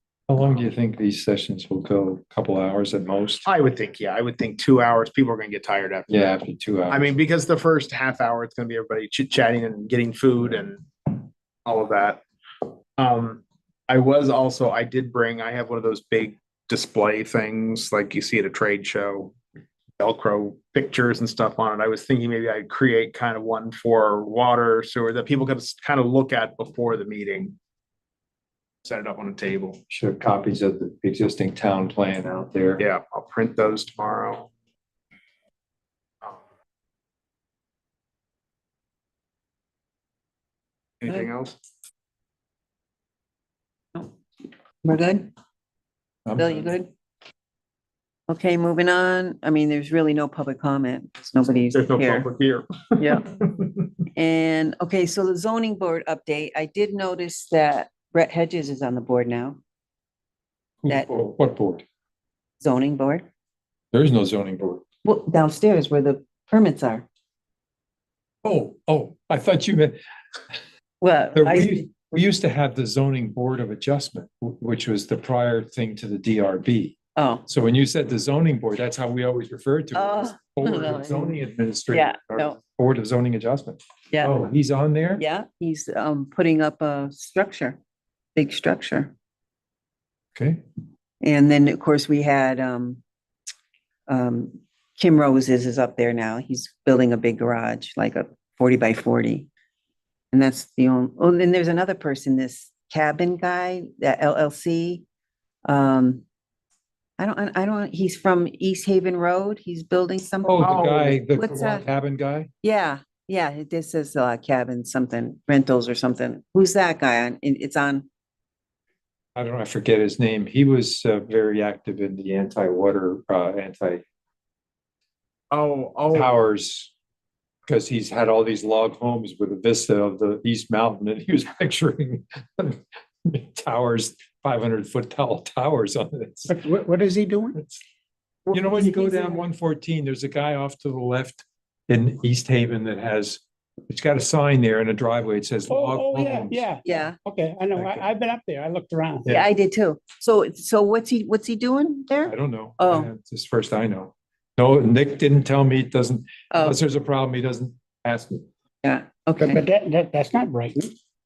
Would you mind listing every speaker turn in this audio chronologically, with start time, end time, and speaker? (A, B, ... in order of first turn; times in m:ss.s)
0:00.3-0:03.4 A
0:03.4-0:06.3 B
0:06.1-0:07.1 A
0:06.9-0:12.2 B
0:13.0-0:19.3 B
0:20.0-0:27.6 B
0:28.8-0:29.8 B
0:29.9-0:32.8 A
0:32.8-0:34.5 B
0:41.0-0:41.6 B
0:44.8-0:45.3 C
0:46.2-0:46.7 A
0:46.4-0:46.9 C
0:48.3-0:52.3 C
0:51.7-0:53.7 B
0:53.0-0:53.3 C
0:54.1-0:59.6 C
1:00.8-1:01.8 A
1:02.6-1:03.2 C
1:03.9-1:04.8 A
1:05.0-1:07.0 C
1:08.4-1:10.0 A
1:11.0-1:11.9 C
1:11.4-1:25.2 A
1:17.2-1:17.4 C
1:19.9-1:21.4 C
1:21.9-1:22.6 C
1:24.1-1:24.4 C
1:25.2-1:27.8 C
1:28.3-1:29.1 C
1:30.3-1:30.6 A
1:31.2-1:33.0 C
1:34.1-1:39.5 C
1:40.3-1:45.0 C
1:45.6-1:46.2 C
1:47.2-1:51.8 C
1:50.4-1:52.5 A
1:50.6-1:51.1 B
1:52.6-1:58.1 C
1:59.4-2:04.0 A
2:05.5-2:06.3 B
2:06.1-2:06.9 A
2:07.7-2:16.6 A
2:16.5-2:17.6 D
2:18.5-2:26.7 A
2:25.7-2:29.3 D
2:26.8-2:27.2 C
2:27.8-2:28.0 A
2:29.2-2:33.1 C
2:32.2-2:38.4 A
2:36.5-2:36.8 C
2:38.8-2:39.6 C
2:39.4-2:40.9 D